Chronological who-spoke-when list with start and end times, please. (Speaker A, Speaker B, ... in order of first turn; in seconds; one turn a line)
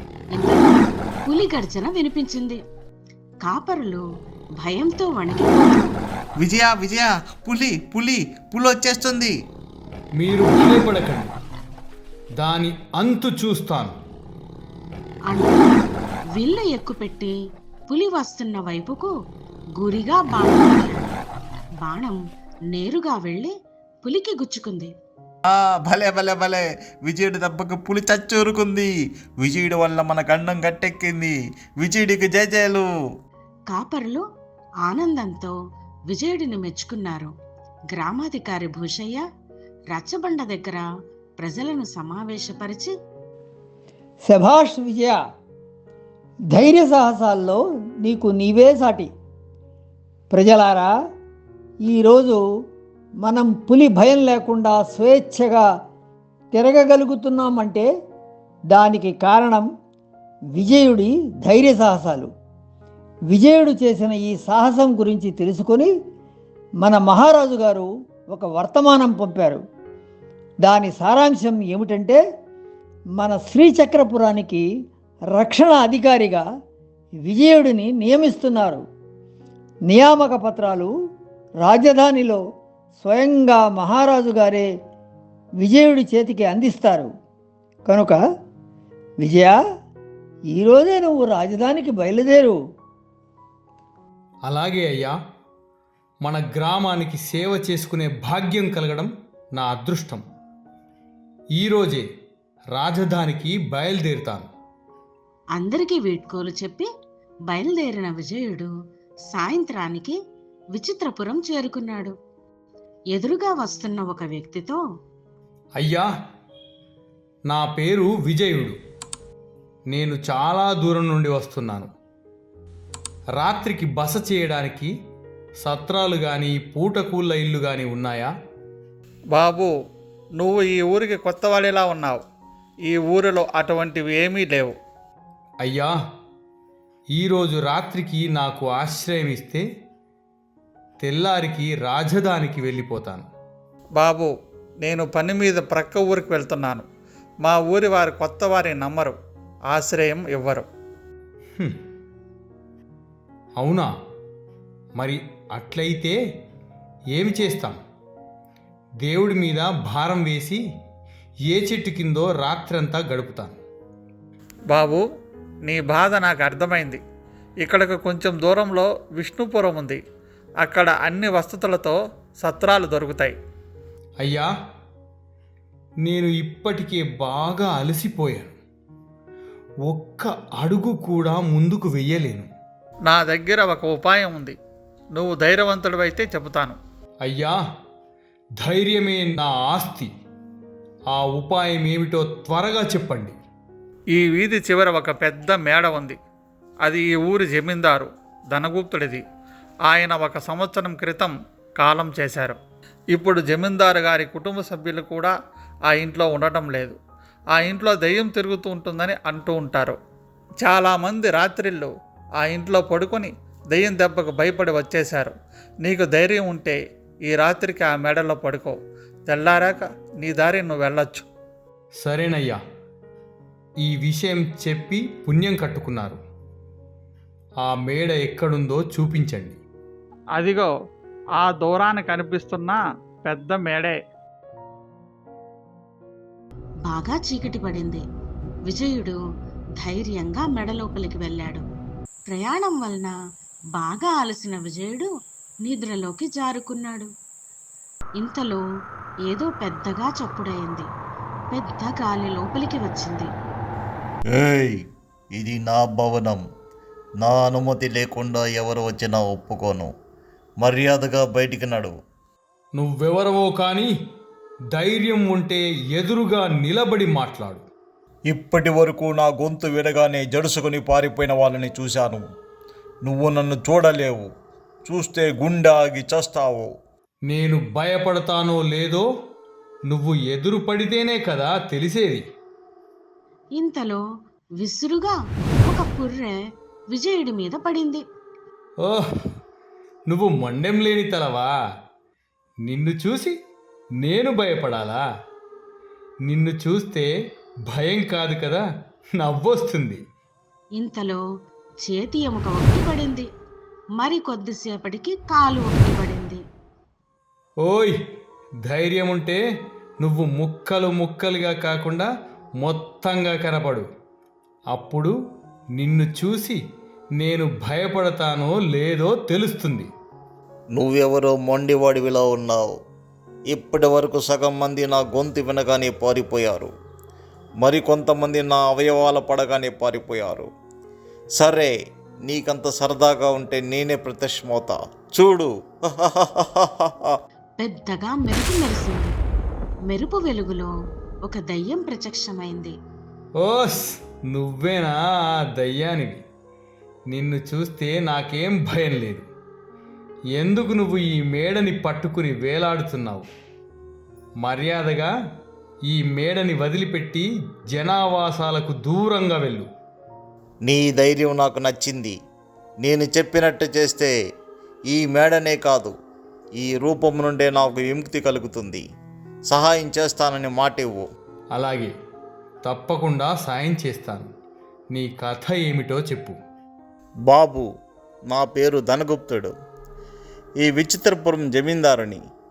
Speaker A: 0.3-2.6
Speaker A: 3.5-4.0
Speaker A: 4.6-5.9
Speaker B: 6.4-9.3
Speaker C: 10.2-11.3
Speaker C: 12.4-13.9
Speaker A: 15.3-15.7
Speaker A: 16.4-17.3
Speaker A: 17.9-19.1
Speaker A: 19.8-21.1
Speaker A: 21.8-22.2
Speaker A: 22.7-23.5
Speaker A: 24.0-24.9
Speaker B: 25.4-32.9
Speaker A: 33.7-34.2
Speaker A: 34.9-35.5
Speaker A: 36.1-37.3
Speaker A: 37.9-39.2
Speaker A: 39.9-40.9
Speaker A: 41.4-42.9
Speaker D: 44.3-45.2
Speaker D: 46.5-49.1
Speaker D: 50.3-50.9
Speaker D: 51.9-52.4
Speaker D: 53.2-55.7
Speaker D: 56.5-57.9
Speaker D: 58.7-59.7
Speaker D: 60.6-62.3
Speaker D: 63.3-65.9
Speaker D: 66.8-69.6
Speaker D: 70.6-72.2
Speaker D: 73.2-74.7
Speaker D: 75.4-76.4
Speaker D: 77.3-78.8
Speaker D: 79.9-80.9
Speaker D: 81.6-82.4
Speaker D: 83.0-84.7
Speaker D: 85.6-87.1
Speaker D: 87.9-88.2
Speaker D: 89.2-89.6
Speaker D: 90.5-92.6
Speaker C: 94.5-95.2
Speaker C: 96.2-100.2
Speaker C: 101.6-102.1
Speaker C: 102.7-104.5
Speaker A: 105.6-106.9
Speaker A: 107.5-108.7
Speaker A: 109.3-110.2
Speaker A: 110.8-112.1
Speaker A: 113.1-114.8
Speaker C: 115.8-116.1
Speaker C: 117.5-118.8
Speaker C: 119.9-121.9
Speaker C: 123.4-124.9
Speaker C: 125.6-128.3
Speaker E: 129.3-129.7
Speaker E: 130.4-132.2
Speaker E: 132.9-134.8
Speaker C: 135.6-135.9
Speaker C: 137.1-139.6
Speaker C: 141.0-143.3
Speaker E: 144.0-144.3
Speaker E: 144.8-146.8
Speaker E: 147.4-149.2
Speaker E: 149.7-150.7
Speaker C: 153.6-153.9
Speaker C: 155.0-156.2
Speaker C: 157.1-157.8
Speaker C: 159.0-160.6
Speaker C: 161.5-163.6
Speaker E: 164.7-165.0
Speaker E: 165.7-167.0
Speaker E: 167.6-170.0
Speaker E: 170.6-173.3
Speaker C: 174.2-174.5
Speaker C: 176.0-178.6
Speaker C: 179.9-182.5
Speaker E: 183.1-184.6
Speaker E: 185.2-186.8
Speaker C: 187.2-187.6
Speaker C: 188.6-190.1
Speaker C: 191.1-193.4
Speaker E: 194.2-196.2
Speaker E: 196.9-199.2
Speaker E: 199.9-202.6
Speaker E: 203.2-205.3
Speaker E: 205.9-207.0
Speaker E: 207.6-210.0
Speaker E: 210.6-216.8
Speaker E: 217.3-221.3
Speaker C: 222.0-222.6
Speaker C: 223.8-226.2
Speaker C: 227.6-229.6
Speaker E: 230.4-230.7
Speaker E: 231.4-234.0
Speaker A: 236.9-238.0
Speaker A: 238.7-239.2
Speaker A: 239.8-241.7
Speaker A: 242.3-243.1
Speaker A: 243.8-245.1
Speaker A: 245.7-247.1
Speaker A: 248.2-248.6
Speaker A: 249.3-250.9
Speaker A: 251.5-253.3
Speaker B: 254.3-254.8
Speaker B: 255.3-256.4
Speaker B: 257.2-259.9
Speaker B: 260.6-261.9
Speaker C: 262.8-263.9
Speaker C: 264.7-267.7
Speaker B: 268.3-272.2
Speaker B: 273.0-274.3
Speaker B: 274.9-276.7
Speaker C: 277.3-279.1
Speaker C: 279.9-282.2
Speaker A: 283.6-284.0
Speaker A: 284.6-286.4
Speaker A: 286.9-288.0
Speaker C: 288.8-289.3
Speaker C: 290.1-291.5
Speaker C: 292.6-293.4
Speaker C: 294.0-295.0
Speaker C: 296.2-297.1
Speaker C: 297.7-298.6
Speaker C: 299.2-300.0
Speaker A: 300.8-301.2
Speaker A: 301.9-303.3
Speaker A: 304.0-306.4
Speaker C: 307.6-308.0
Speaker C: 308.7-309.4
Speaker C: 310.0-312.1
Speaker C: 312.6-313.9
Speaker C: 314.7-315.1
Speaker C: 315.8-316.6
Speaker C: 317.2-319.9
Speaker B: 320.8-322.7
Speaker B: 323.5-326.7
Speaker B: 327.6-330.5
Speaker B: 331.4-331.7
Speaker B: 332.3-337.1
Speaker A: 337.6-339.1
Speaker A: 339.9-340.7
Speaker A: 341.3-342.8
Speaker C: 343.4-346.2
Speaker C: 347.1-349.3
Speaker C: 350.4-353.3
Speaker C: 354.4-355.1
Speaker C: 355.9-359.7
Speaker B: 360.7-362.1
Speaker B: 362.8-364.1
Speaker B: 364.9-365.9
Speaker B: 366.6-368.8
Speaker B: 369.5-371.1
Speaker C: 371.5-371.9
Speaker C: 372.6-374.3
Speaker C: 374.9-376.4
Speaker B: 377.3-377.6
Speaker B: 378.3-379.5
Speaker B: 380.6-382.2